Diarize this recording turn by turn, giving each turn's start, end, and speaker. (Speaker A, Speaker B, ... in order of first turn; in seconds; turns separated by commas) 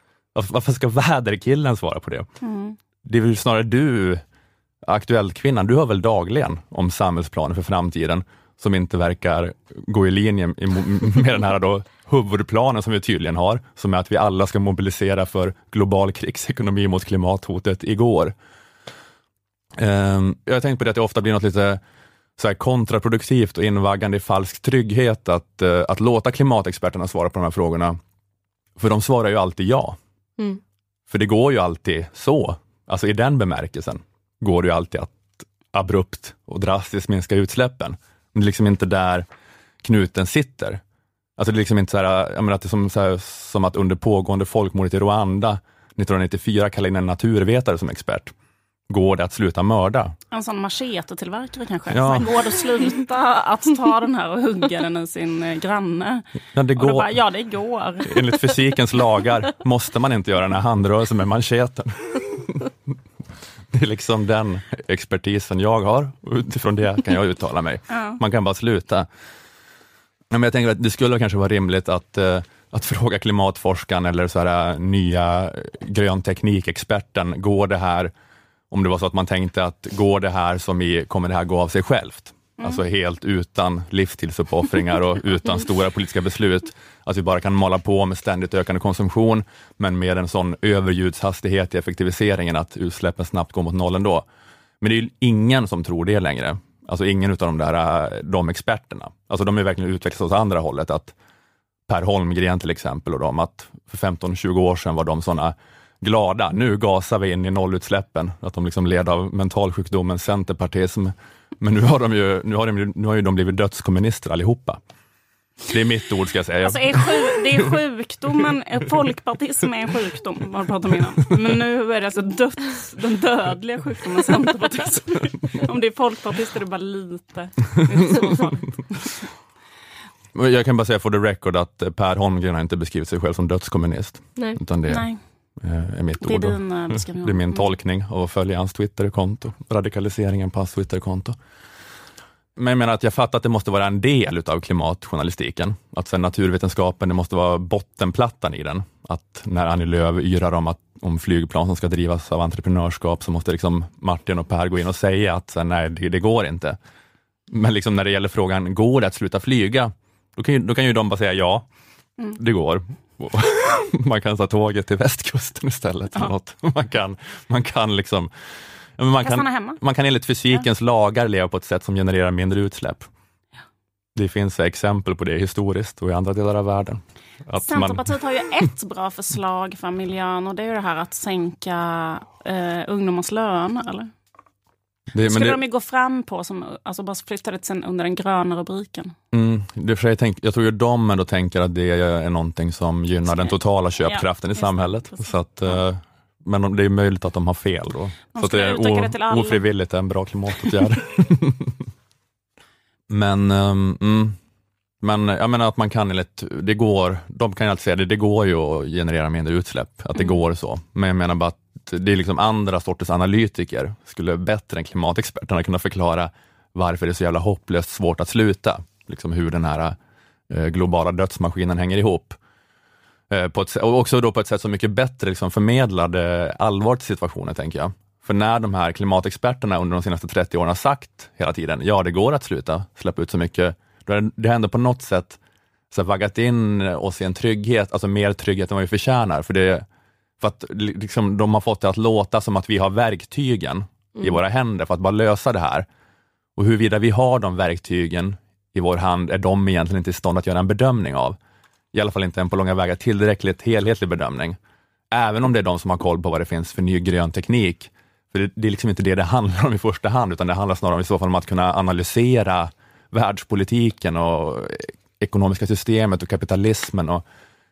Speaker A: 0.3-2.3, Speaker B: 2.4-2.8, Speaker A: 3.0-4.2, Speaker A: 4.9-18.4, Speaker A: 19.8-21.8, Speaker A: 22.4-28.0, Speaker A: 28.8-30.0, Speaker A: 31.1-39.3, Speaker A: 39.8-40.8, Speaker A: 41.4-48.3, Speaker A: 48.9-50.1, Speaker B: 50.3-58.5, Speaker A: 51.9-52.3, Speaker A: 56.5-57.1, Speaker A: 58.1-62.7, Speaker A: 63.7-69.1, Speaker B: 67.9-68.2, Speaker A: 70.3-78.1, Speaker A: 78.7-94.2, Speaker A: 94.8-101.1, Speaker A: 101.9-114.8, Speaker A: 115.7-117.0, Speaker B: 116.6-128.6, Speaker A: 128.2-128.6, Speaker A: 130.3-135.1, Speaker B: 134.9-135.2, Speaker A: 135.6-141.4, Speaker B: 136.2-137.7, Speaker A: 142.6-156.8, Speaker A: 157.5-161.7, Speaker A: 162.4-168.3, Speaker A: 169.0-173.1, Speaker B: 169.2-169.8, Speaker A: 174.2-178.0, Speaker B: 177.6-184.1, Speaker A: 185.1-185.6, Speaker B: 185.2-189.2, Speaker A: 189.3-201.8, Speaker B: 193.3-195.8, Speaker B: 198.3-199.7, Speaker A: 203.1-204.4, Speaker A: 205.0-220.0, Speaker A: 220.5-222.4, Speaker A: 223.3-235.4, Speaker A: 235.9-239.8, Speaker A: 240.4-245.9, Speaker A: 246.6-251.4, Speaker A: 251.9-254.6, Speaker A: 255.1-267.2